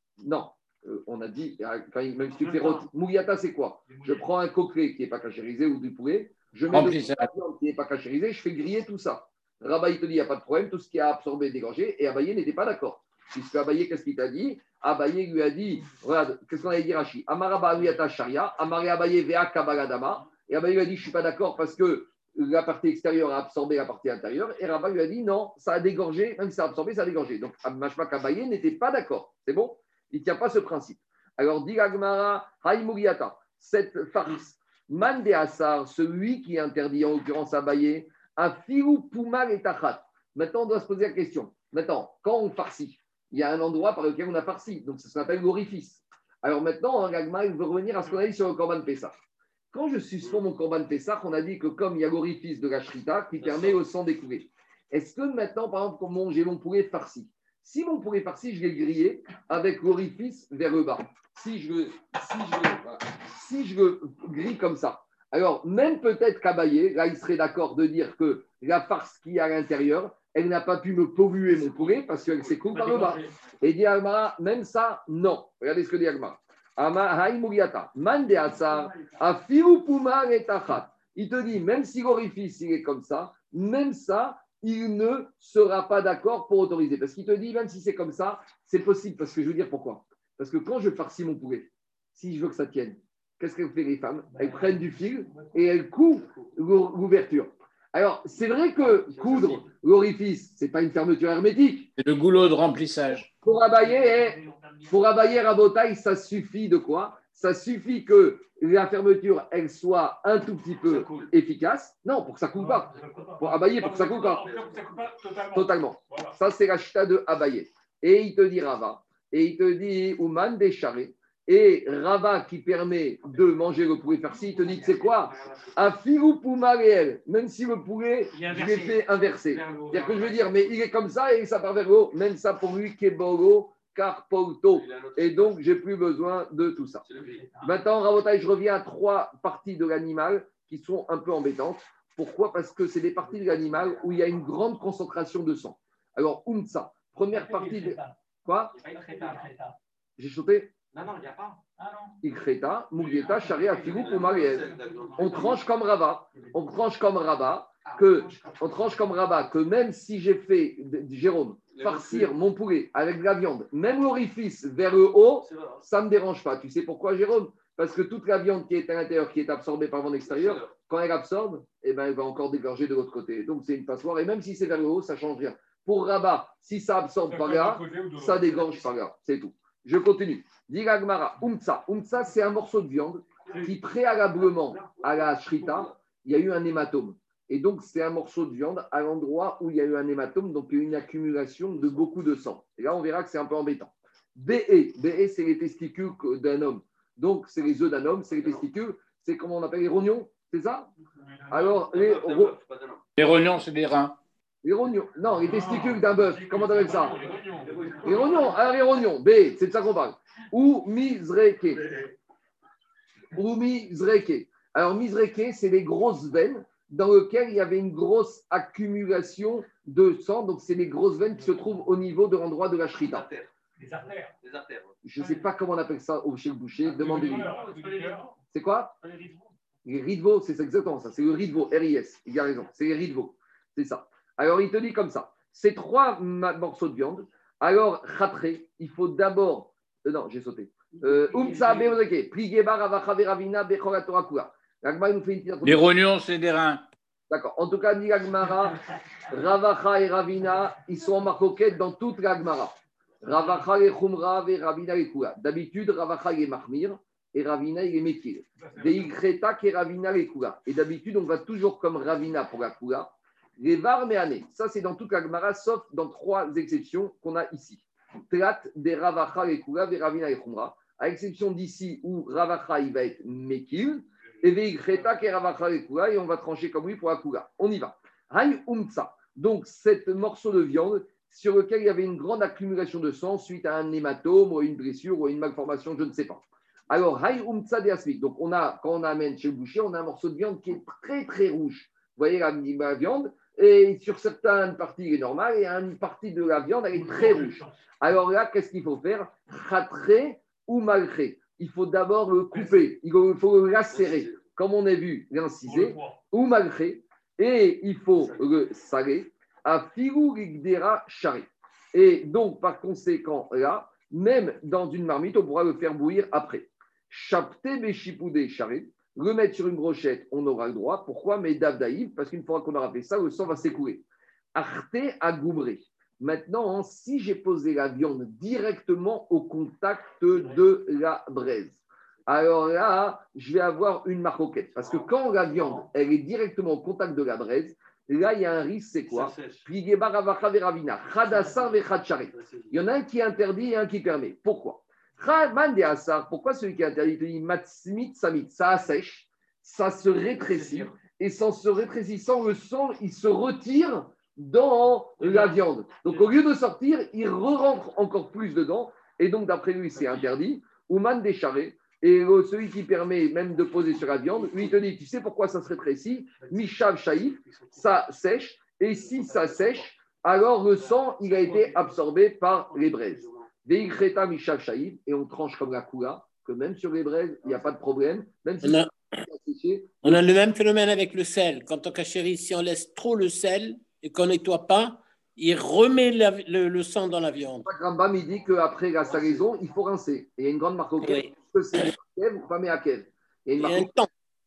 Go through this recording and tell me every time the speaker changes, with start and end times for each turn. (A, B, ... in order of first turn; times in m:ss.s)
0:00.2-0:49.2 A
0:03.9-0:04.2 B
0:06.7-0:07.3 C
0:49.7-1:41.9 A
0:53.4-0:53.8 D
1:12.7-1:13.2 B
1:12.8-1:13.3 E
1:18.4-1:19.3 E
1:34.3-1:35.6 E
1:36.3-1:36.5 D
1:38.8-1:39.7 D
1:42.0-1:43.3 C
1:43.4-1:54.5 A
1:43.5-1:45.2 E
1:50.8-1:51.3 D
1:52.6-1:56.4 B
1:52.8-1:53.4 E
1:54.2-1:55.0 D
1:55.5-2:17.0 A
2:04.3-2:05.8 E
2:08.3-2:10.4 E
2:14.7-2:15.6 D
2:17.0-2:17.4 D
2:17.2-2:17.8 E
2:17.6-2:28.7 A
2:23.5-2:24.5 E
2:27.3-2:28.2 E
2:28.7-2:29.8 E
2:30.2-2:30.7 A
2:30.9-2:32.2 E
2:32.2-3:20.9 A
2:33.0-2:34.8 B
2:33.3-2:35.4 E
2:33.8-2:35.6 D
2:37.8-2:39.2 E
2:41.7-2:42.3 D
2:45.4-2:45.8 D
2:50.2-2:50.7 D
2:57.3-2:59.0 B
3:03.5-3:03.7 B
3:05.6-3:05.9 D
3:21.2-3:21.8 B
3:21.5-3:22.5 A
3:21.6-3:23.0 D
3:23.2-3:24.2 C
3:24.6-3:27.2 A
3:25.3-3:28.5 B
3:27.0-3:28.6 D
3:28.0-3:31.9 A
3:33.3-3:43.3 A
3:43.0-3:43.5 D
3:43.8-3:44.3 E
3:43.8-3:44.1 B
3:44.4-3:45.0 D
3:45.0-3:47.6 A
3:46.8-3:48.3 B
3:47.2-3:48.3 E
3:48.5-3:49.0 A
3:49.0-3:49.5 E
3:49.8-4:05.9 A
4:00.9-4:02.0 E
4:05.6-4:06.8 C
4:07.3-6:20.2 A
4:18.6-4:19.1 B
4:57.0-4:57.7 B
5:03.9-5:04.4 D
5:05.6-5:06.2 B
5:08.2-5:08.5 D
5:34.8-5:35.9 D
5:39.1-5:39.7 D
5:42.3-5:42.8 D
5:50.6-5:50.9 D
6:00.0-6:00.3 D
6:04.4-6:04.7 D
6:06.4-6:07.9 D
6:09.0-6:09.9 D
6:10.8-6:11.0 D
6:12.7-6:13.5 D
6:17.4-6:17.7 D
6:18.6-6:18.9 F
6:20.0-6:27.7 F
6:27.6-6:33.9 A
6:31.0-6:31.8 F
6:33.6-6:34.1 F